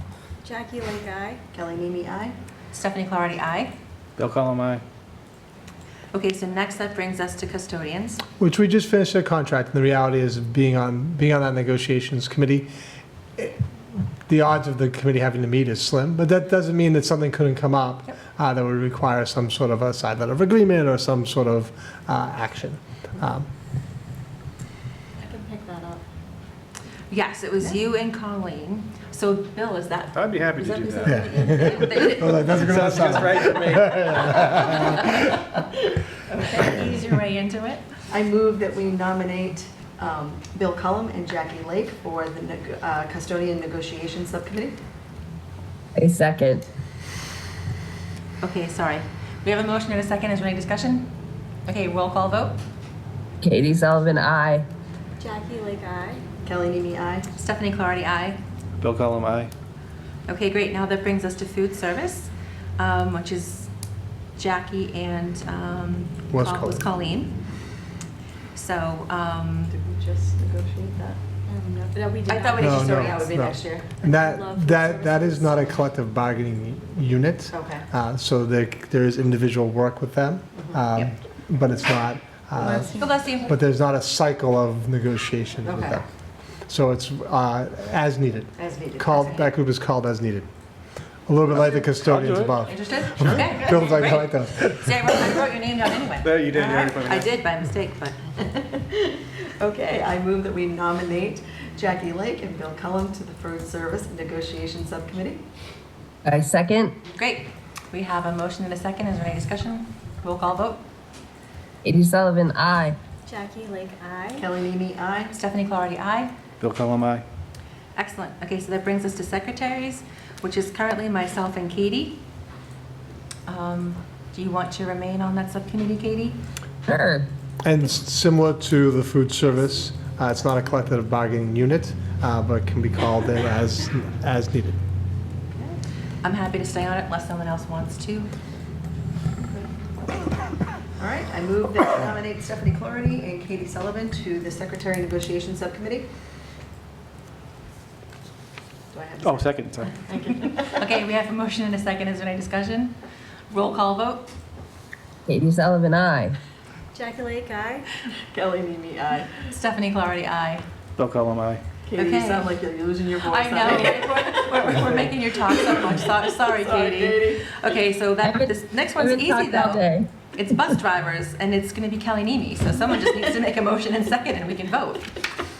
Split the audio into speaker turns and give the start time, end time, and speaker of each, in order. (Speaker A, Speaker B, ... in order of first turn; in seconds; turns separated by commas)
Speaker A: 0.4-1.4, Speaker B: 1.5-2.3, Speaker C: 2.7-3.7, Speaker D: 4.2-4.8, Speaker C: 6.1-8.2, Speaker E: 8.4-12.7, Speaker E: 13.4-23.5, Speaker A: 25.2-26.0, Speaker C: 27.1-33.1, Speaker D: 30.1-31.3, Speaker E: 31.1-35.3, Speaker D: 32.5-34.8, Speaker C: 34.8-35.3, Speaker B: 36.3-36.9, Speaker C: 36.4-37.8, Speaker B: 38.1-44.8, Speaker F: 46.0-46.6, Speaker C: 48.4-51.1, Speaker C: 51.6-52.6, Speaker F: 53.4-54.6, Speaker A: 55.2-56.2, Speaker B: 56.4-57.3, Speaker C: 57.4-58.4, Speaker D: 58.8-59.5, Speaker C: 60.3-63.7, Speaker C: 64.4-67.4, Speaker E: 66.3-66.9, Speaker C: 68.5-69.7, Speaker B: 69.7-71.2, Speaker A: 71.5-72.8, Speaker C: 72.3-73.3, Speaker B: 72.6-73.9, Speaker E: 72.6-86.0, Speaker A: 74.0-75.7, Speaker B: 77.5-77.9, Speaker A: 82.6-83.2, Speaker C: 82.9-83.5, Speaker B: 85.6-86.0, Speaker E: 86.7-90.5, Speaker B: 88.6-89.4, Speaker C: 89.2-89.5, Speaker E: 91.3-94.9, Speaker D: 91.5-92.7, Speaker C: 92.6-98.2, Speaker D: 93.2-93.6, Speaker D: 96.2-97.3, Speaker B: 98.4-105.4, Speaker F: 106.2-106.9, Speaker C: 107.1-110.8, Speaker F: 111.8-113.0, Speaker A: 113.2-114.5, Speaker B: 114.4-115.3, Speaker C: 115.3-116.3, Speaker D: 116.6-117.2, Speaker C: 118.0-122.2, Speaker C: 123.5-126.4, Speaker F: 126.9-127.2, Speaker E: 127.6-134.8, Speaker C: 136.2-138.3, Speaker B: 141.0-146.1, Speaker B: 148.9-149.5, Speaker D: 149.2-150.0, Speaker C: 150.1-152.9, Speaker B: 150.2-150.8, Speaker C: 153.5-154.3, Speaker F: 155.3-156.3, Speaker A: 156.9-157.8, Speaker B: 158.1-159.5, Speaker C: 159.5-160.6, Speaker D: 161.0-161.6, Speaker B: 161.9-167.4, Speaker C: 161.9-162.5, Speaker C: 163.3-175.1, Speaker F: 169.0-170.0